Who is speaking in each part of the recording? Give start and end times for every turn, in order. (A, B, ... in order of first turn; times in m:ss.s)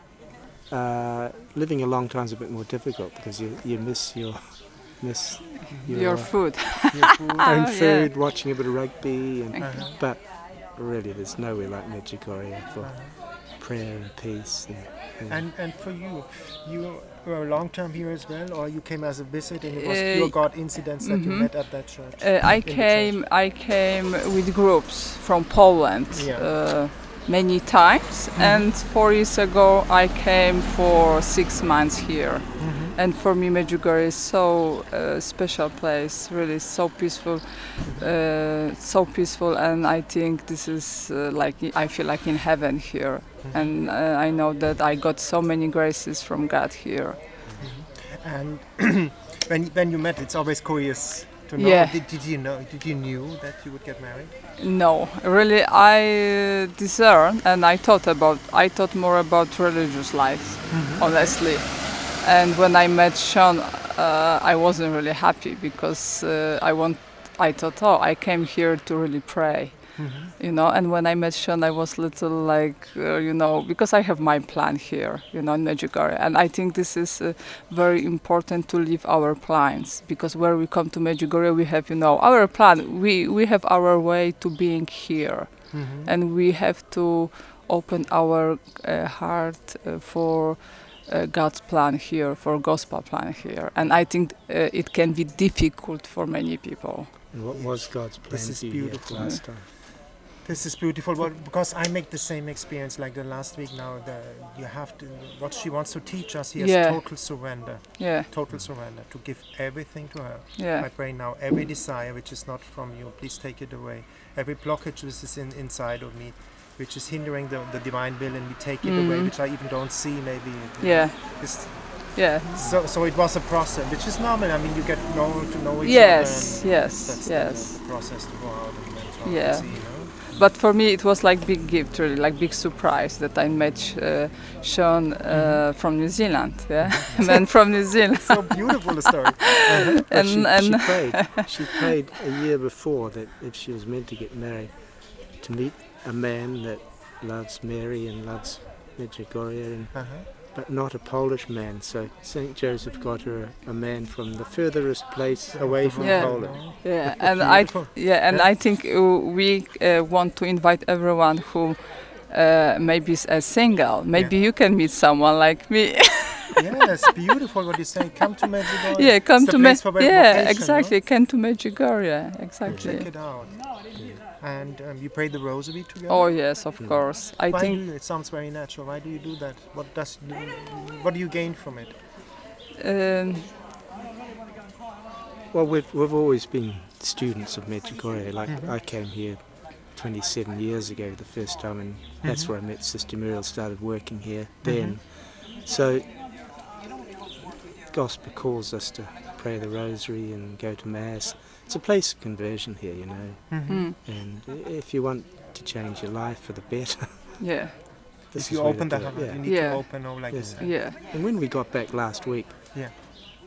0:00.7-0:06.9 A
0:05.7-0:07.5 B
0:05.8-0:08.4 C
0:07.4-0:15.5 A
0:09.5-0:09.9 C
0:09.6-0:10.0 B
0:12.8-0:13.2 B
0:15.2-0:23.2 B
0:19.7-0:47.4 C
0:26.1-0:26.6 B
0:28.4-0:28.7 B
0:32.6-0:33.0 B
0:43.4-0:43.8 B
0:47.4-0:47.7 A
0:47.6-0:54.3 B
0:51.6-0:52.0 C
0:54.6-1:37.2 C
1:00.7-1:01.4 B
1:10.0-1:10.3 B
1:25.7-1:26.1 B
1:33.8-1:34.0 B
1:37.3-1:39.7 A
1:37.5-2:10.4 B
1:46.6-1:48.3 C
1:50.6-1:50.9 C
1:58.8-1:59.3 C
2:00.8-2:02.6 C
2:02.6-2:02.8 A
2:05.8-2:07.8 C
2:09.2-2:19.3 C
2:15.3-2:15.7 B
2:16.8-2:20.1 B
2:17.1-2:17.4 A
2:19.8-2:21.9 C
2:20.1-2:36.9 A
2:29.9-2:30.3 B
2:35.5-2:38.6 B
2:36.0-2:46.6 C
2:44.1-2:44.4 B
2:46.6-2:51.0 B
2:48.9-2:53.1 C
2:52.6-2:54.2 A
2:52.6-3:02.0 B
2:56.1-2:57.8 C
2:56.8-2:57.1 A
3:02.8-3:03.5 C
3:05.5-3:16.1 A
3:08.4-3:08.7 B
3:12.2-3:12.5 B
3:14.6-3:15.0 B
3:17.8-3:27.5 A
3:23.5-3:23.9 B
3:23.7-3:24.0 C
3:27.4-3:27.8 C
3:28.3-3:29.5 A
3:28.3-3:30.8 B
3:29.4-3:31.0 C
3:30.3-3:33.1 A